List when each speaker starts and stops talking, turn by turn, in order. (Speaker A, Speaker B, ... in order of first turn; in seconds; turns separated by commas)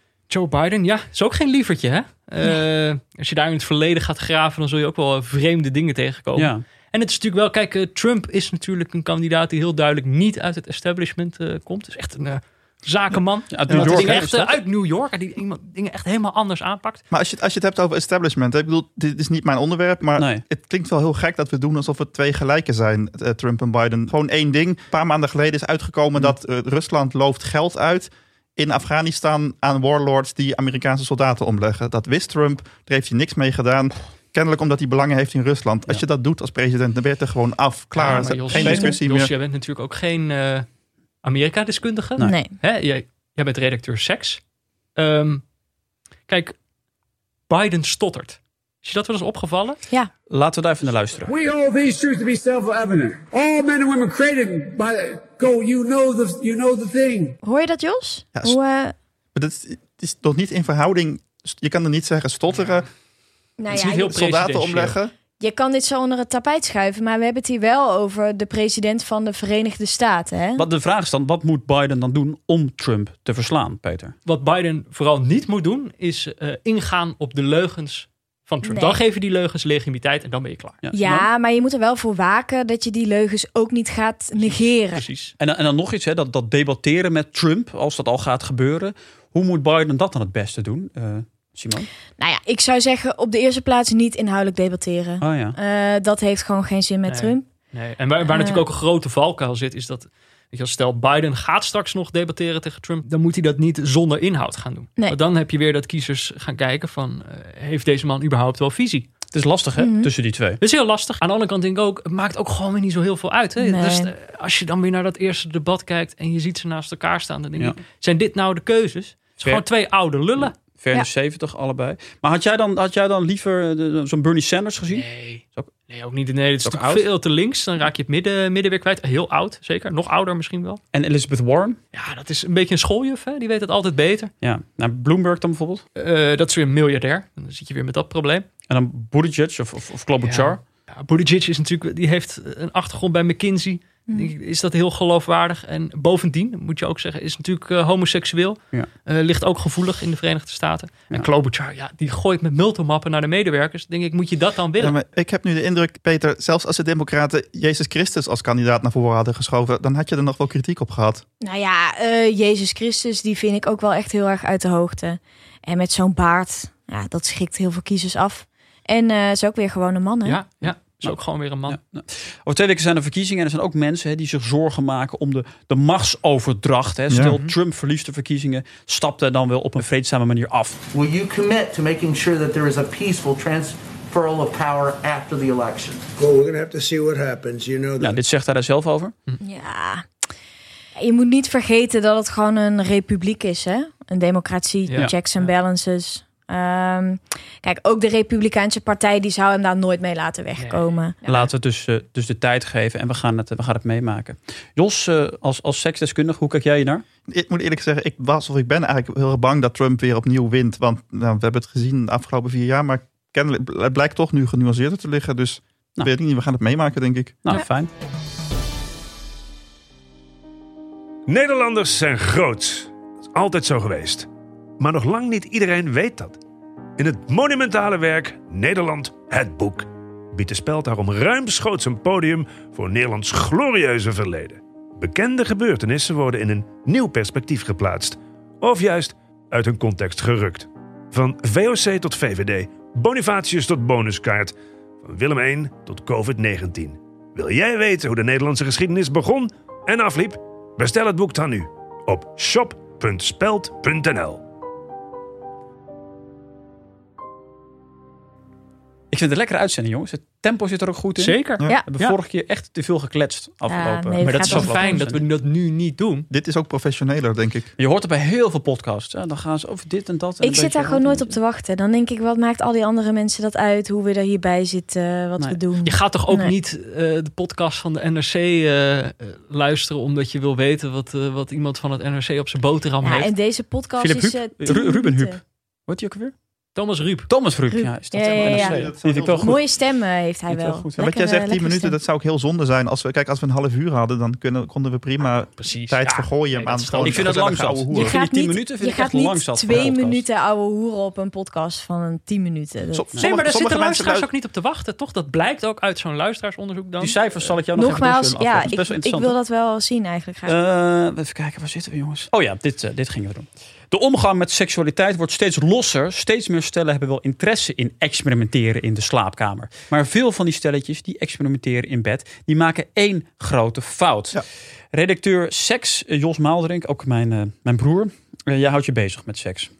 Speaker A: 0.3-17.0, Speaker B: 6.3-6.6, Speaker B: 13.5-14.6, Speaker C: 13.7-14.3, Speaker C: 17.1-39.3, Speaker B: 20.1-20.4, Speaker A: 37.9-40.7, Speaker B: 38.5-39.0, Speaker A: 41.2-44.4, Speaker D: 42.2-42.5, Speaker A: 45.0-45.4, Speaker A: 46.3-46.5, Speaker A: 47.5-49.8, Speaker B: 50.3-51.3, Speaker E: 51.3-57.3, Speaker D: 57.4-58.9, Speaker C: 59.3-62.9, Speaker D: 63.6-64.1, Speaker C: 63.7-65.1, Speaker A: 63.7-65.0, Speaker D: 65.3-70.6, Speaker B: 70.5-74.1, Speaker A: 74.2-80.8, Speaker D: 78.6-79.0, Speaker B: 80.8-81.3, Speaker D: 80.9-85.0, Speaker A: 84.3-85.3, Speaker B: 85.4-91.9, Speaker D: 92.2-97.5, Speaker B: 95.2-95.5, Speaker A: 97.1-109.1, Speaker D: 98.3-98.6, Speaker B: 109.3-110.6, Speaker D: 109.8-110.1, Speaker A: 110.6-120.5, Speaker D: 113.6-114.1, Speaker B: 119.4-119.6, Speaker B: 120.5-125.7, Speaker A: 124.9-130.8, Speaker B: 126.6-127.0, Speaker B: 130.9-131.8, Speaker A: 131.9-134.3, Speaker B: 134.4-135.8, Speaker A: 135.9-138.5, Speaker B: 138.7-140.6, Speaker A: 140.2-154.9, Speaker C: 154.8-161.2, Speaker D: 161.4-170.4, Speaker A: 170.2-171.8, Speaker B: 170.6-180.8, Speaker C: 177.1-177.4, Speaker A: 177.2-177.5, Speaker F: 180.9-186.1, Speaker G: 186.2-188.2, Speaker B: 188.0-189.1, Speaker D: 189.4-190.0, Speaker D: 190.9-201.2, Speaker A: 194.9-195.5, Speaker A: 200.6-201.4, Speaker B: 201.2-207.0, Speaker C: 207.3-217.5, Speaker B: 217.4-217.9, Speaker H: 221.3-224.3, Speaker H: 224.8-226.4, Speaker H: 227.0-254.4, Speaker B: 259.1-261.4, Speaker A: 261.2-262.1, Speaker B: 261.9-265.2, Speaker D: 263.7-264.7, Speaker A: 264.2-266.3, Speaker C: 266.3-267.7, Speaker B: 267.8-271.3, Speaker D: 270.4-276.5, Speaker A: 275.8-283.3, Speaker D: 283.0-285.4, Speaker B: 284.0-286.3, Speaker A: 286.7-287.3, Speaker B: 287.3-289.7, Speaker D: 287.7-292.0, Speaker C: 288.2-289.6, Speaker B: 290.5-291.0, Speaker C: 291.0-298.2, Speaker A: 295.5-297.4, Speaker B: 297.0-300.2, Speaker D: 297.9-303.1, Speaker C: 302.9-304.3, Speaker A: 303.1-307.2, Speaker B: 307.0-309.4, Speaker D: 307.7-310.5, Speaker B: 310.4-329.7